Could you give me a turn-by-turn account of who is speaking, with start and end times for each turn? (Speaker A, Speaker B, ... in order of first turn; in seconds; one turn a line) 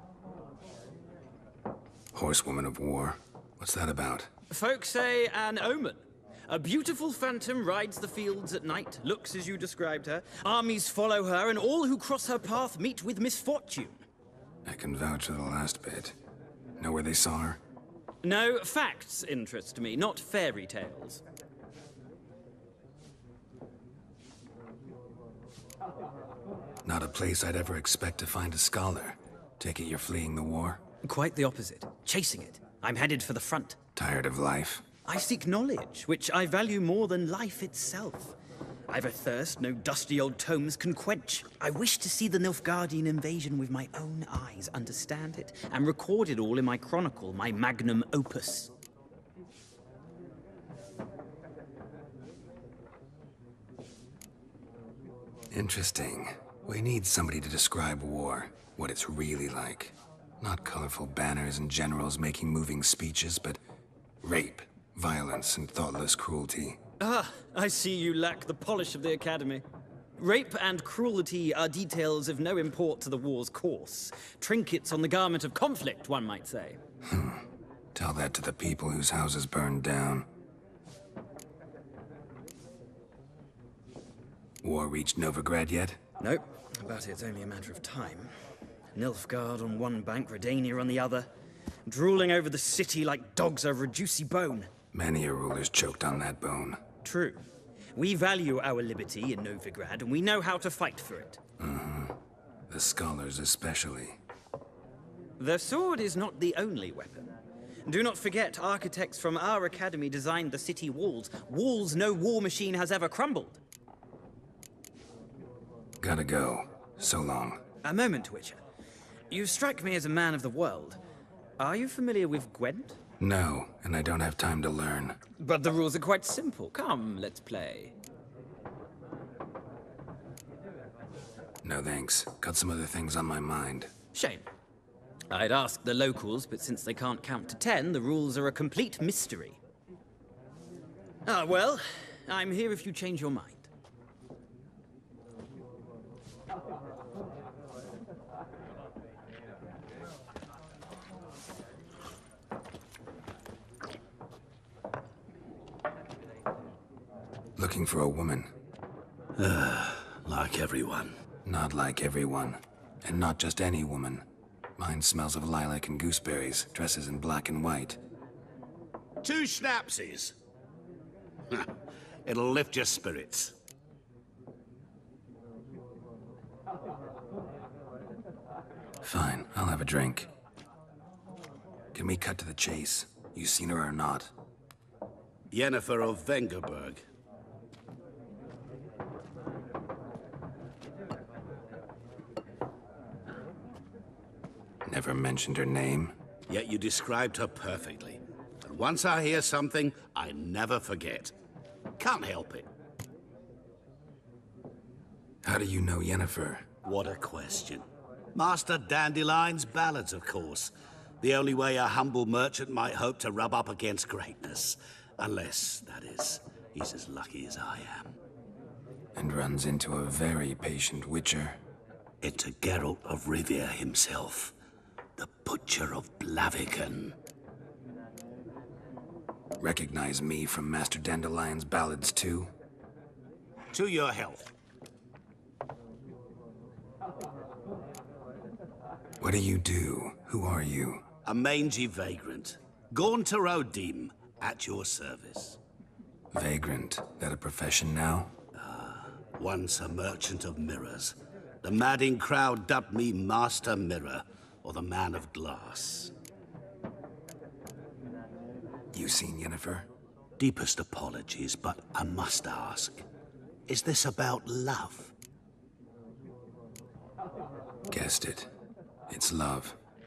Speaker A: 2.1-4.3
Speaker B: 4.5-14.0
Speaker A: 14.7-16.2
Speaker A: 16.8-17.6
Speaker B: 18.2-21.2
Speaker A: 26.9-30.8
Speaker B: 31.0-33.8
Speaker A: 34.0-34.9
Speaker B: 35.0-38.4
Speaker B: 38.9-48.7
Speaker A: 55.5-63.6
Speaker A: 64.2-66.8
Speaker B: 67.0-69.7
Speaker B: 70.2-76.8
Speaker A: 77.1-77.4
Speaker A: 78.0-80.3
Speaker A: 84.6-86.0
Speaker B: 86.2-88.3
Speaker B: 88.9-91.3
Speaker B: 91.9-94.7
Speaker A: 94.9-96.8
Speaker B: 97.0-97.4
Speaker B: 98.0-101.4
Speaker A: 101.6-102.2
Speaker A: 102.7-104.2
Speaker B: 105.4-107.3
Speaker B: 107.9-113.6
Speaker A: 116.0-117.6
Speaker B: 117.8-118.6
Speaker B: 119.3-121.0
Speaker B: 121.6-123.0
Speaker A: 123.2-125.2
Speaker B: 125.4-128.0
Speaker A: 131.6-133.9
Speaker B: 134.1-134.5
Speaker B: 135.3-139.6
Speaker B: 141.3-143.7
Speaker A: 157.6-158.5
Speaker C: 159.4-161.1
Speaker A: 161.5-164.2
Speaker A: 164.8-168.0
Speaker C: 169.2-170.3
Speaker C: 172.3-173.6
Speaker A: 179.0-180.3
Speaker A: 181.9-184.3
Speaker C: 185.5-187.0
Speaker A: 194.8-196.2
Speaker C: 196.5-201.3
Speaker C: 202.0-202.7
Speaker A: 205.4-206.7
Speaker C: 206.8-218.1
Speaker A: 219.2-221.6
Speaker C: 222.2-224.5
Speaker C: 225.2-227.2
Speaker A: 229.6-232.5
Speaker C: 233.7-234.5
Speaker A: 239.2-241.0
Speaker C: 241.2-245.6
Speaker A: 246.3-248.3
Speaker C: 248.6-256.1
Speaker A: 258.9-259.9
Speaker C: 260.4-263.0
Speaker C: 263.7-265.1
Speaker A: 267.9-268.5
Speaker A: 269.1-269.8